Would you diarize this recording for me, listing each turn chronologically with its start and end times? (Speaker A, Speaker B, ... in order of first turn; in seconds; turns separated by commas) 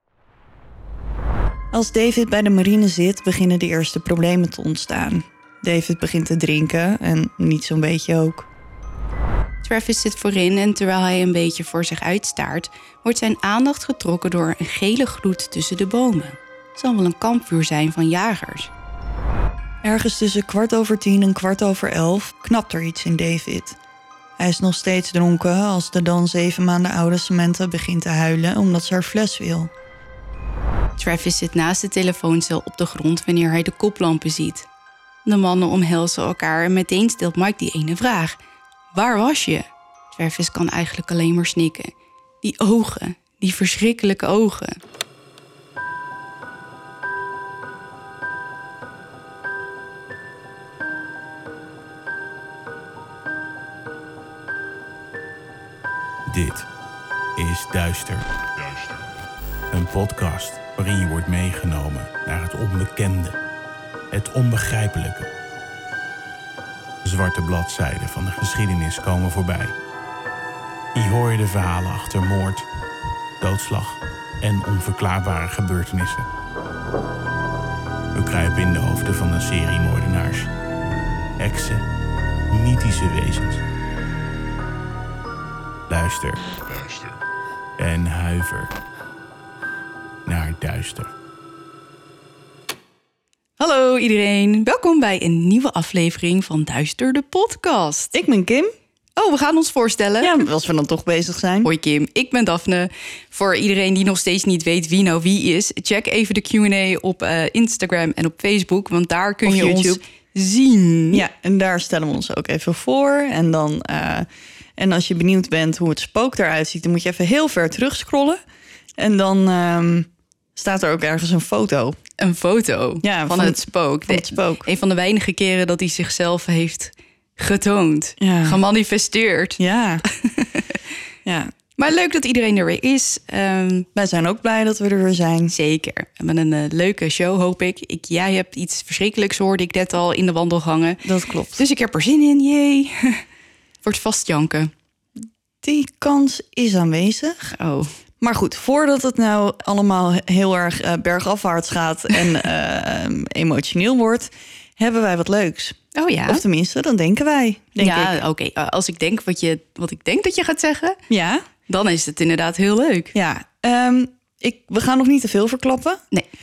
Speaker A: 1.7-8.5, Speaker B: 9.6-18.7, Speaker A: 19.8-23.8, Speaker A: 24.4-29.7, Speaker B: 31.0-34.7, Speaker B: 35.2-38.4, Speaker B: 38.9-44.8, Speaker C: 56.3-56.7, Speaker C: 57.4-58.3, Speaker C: 59.7-63.4, Speaker C: 64.1-65.3, Speaker C: 67.0-69.8, Speaker C: 71.0-72.7, Speaker C: 73.4-76.3, Speaker C: 78.1-80.5, Speaker C: 81.4-81.9, Speaker C: 82.5-83.6, Speaker C: 85.9-87.2, Speaker C: 87.8-88.7, Speaker C: 90.3-91.1, Speaker B: 93.6-98.2, Speaker A: 98.1-98.7, Speaker B: 99.2-100.4, Speaker A: 100.2-101.7, Speaker B: 101.6-111.2, Speaker A: 109.5-110.0, Speaker A: 111.1-118.4, Speaker A: 119.0-122.0, Speaker B: 122.2-130.8, Speaker A: 123.0-124.7, Speaker A: 128.2-128.6, Speaker A: 129.6-130.0, Speaker A: 131.2-131.5, Speaker B: 131.8-133.9, Speaker A: 133.9-135.6, Speaker B: 135.5-141.0, Speaker A: 141.0-141.6, Speaker B: 141.6-143.2, Speaker B: 143.8-144.7, Speaker A: 145.6-147.5, Speaker B: 147.5-147.9, Speaker A: 148.2-158.2, Speaker B: 155.9-156.4, Speaker B: 157.8-161.0, Speaker A: 161.1-161.4, Speaker B: 161.7-163.1, Speaker A: 163.1-166.0